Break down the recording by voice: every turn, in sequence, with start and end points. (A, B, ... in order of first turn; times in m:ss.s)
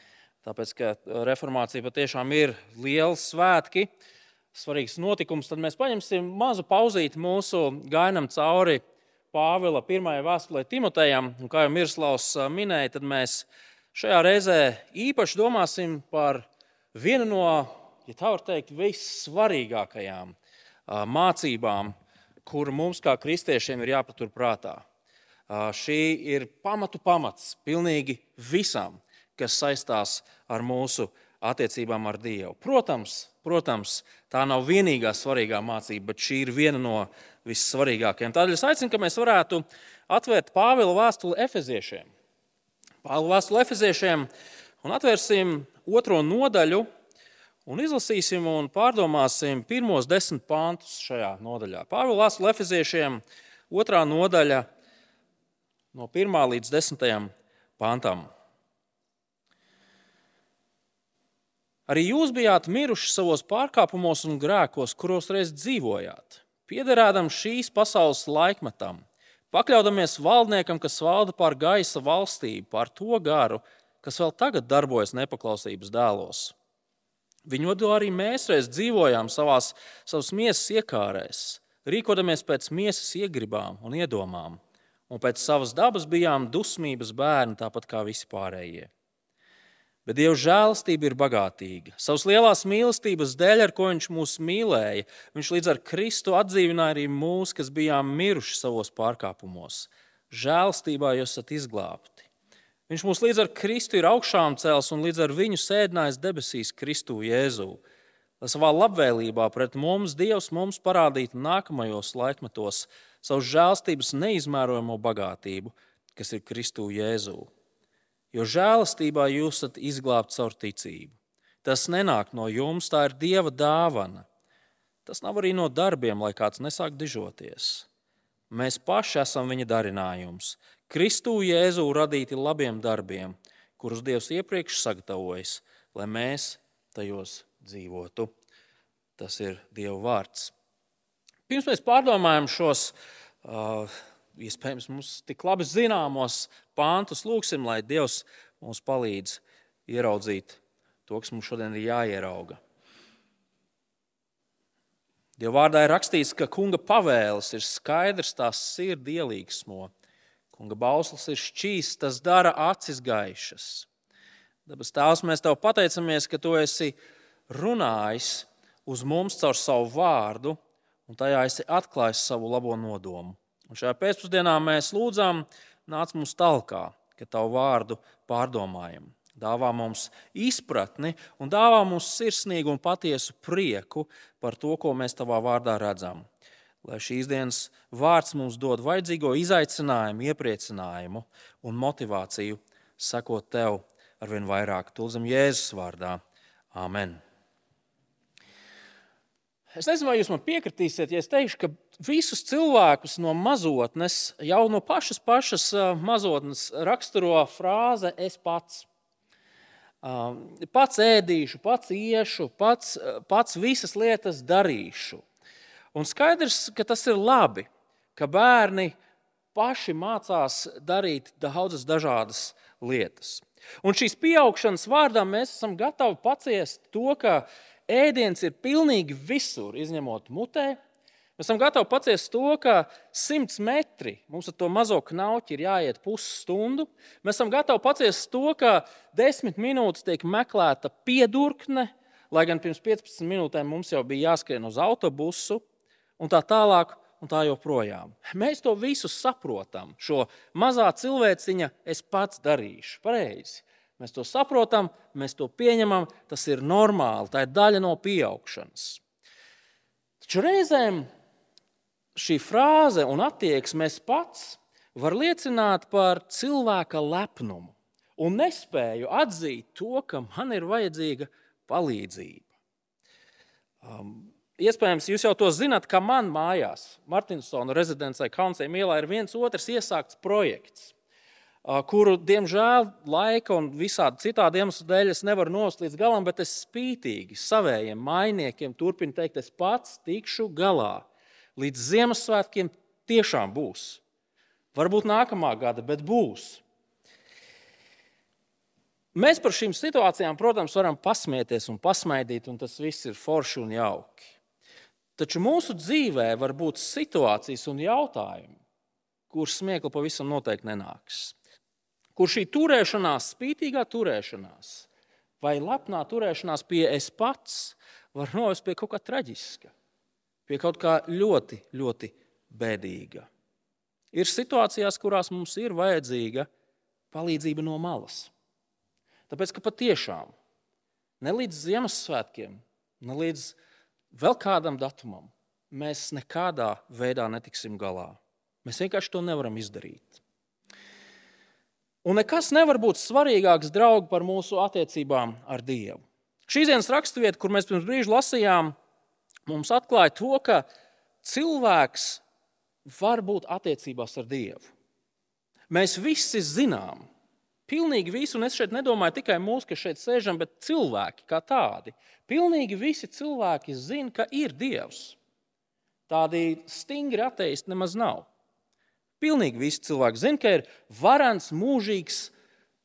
0:00.4-0:03.9 A
0:04.5-0:20.4 A
0:20.9-0:21.9 A
0:22.4-0:24.8 A
0:25.5-0:42.1 A
0:43.0-0:44.3 A
0:44.8-0:46.9 A
0:47.7-0:54.7 A
0:55.9-0:58.3 A
1:01.9-1:16.6 A
1:17.4-1:28.9 A
1:30.0-1:42.3 A
1:42.9-1:47.8 A
1:48.4-1:57.5 A
1:58.3-2:04.3 A
2:05.0-2:07.9 A
2:08.5-2:18.3 A
2:19.2-2:20.5 A
2:21.5-2:32.6 A
2:35.4-2:39.9 A
2:40.5-2:43.9 A
2:44.6-2:47.0 A
2:47.5-3:06.3 A
3:06.8-3:16.2 A
3:16.7-3:17.2 A
3:19.8-3:28.9 A
3:30.0-3:35.2 A
3:35.9-3:39.0 A
3:39.5-3:50.8 A
3:51.4-4:05.6 A
4:06.2-4:19.0 A
4:20.2-4:21.1 A
4:22.1-4:32.5 A
4:33.8-4:40.9 A
4:41.6-4:54.0 A
4:54.7-4:56.6 A
4:59.1-5:04.4 A
5:05.2-5:08.6 A
5:09.3-5:11.4 A
5:12.2-5:14.9 A
5:15.4-5:19.7 A
5:20.5-5:23.3 A
5:24.1-5:26.5 A
5:27.1-5:28.3 A
5:29.3-5:30.3 A
5:31.2-5:33.6 A
5:34.1-5:40.2 A
5:42.0-5:48.8 A
5:49.5-5:50.6 A
5:51.2-5:52.2 A
5:52.8-5:54.7 A
5:55.7-5:57.1 A
5:57.7-6:05.2 A
6:06.1-6:08.3 A
6:09.2-6:12.3 A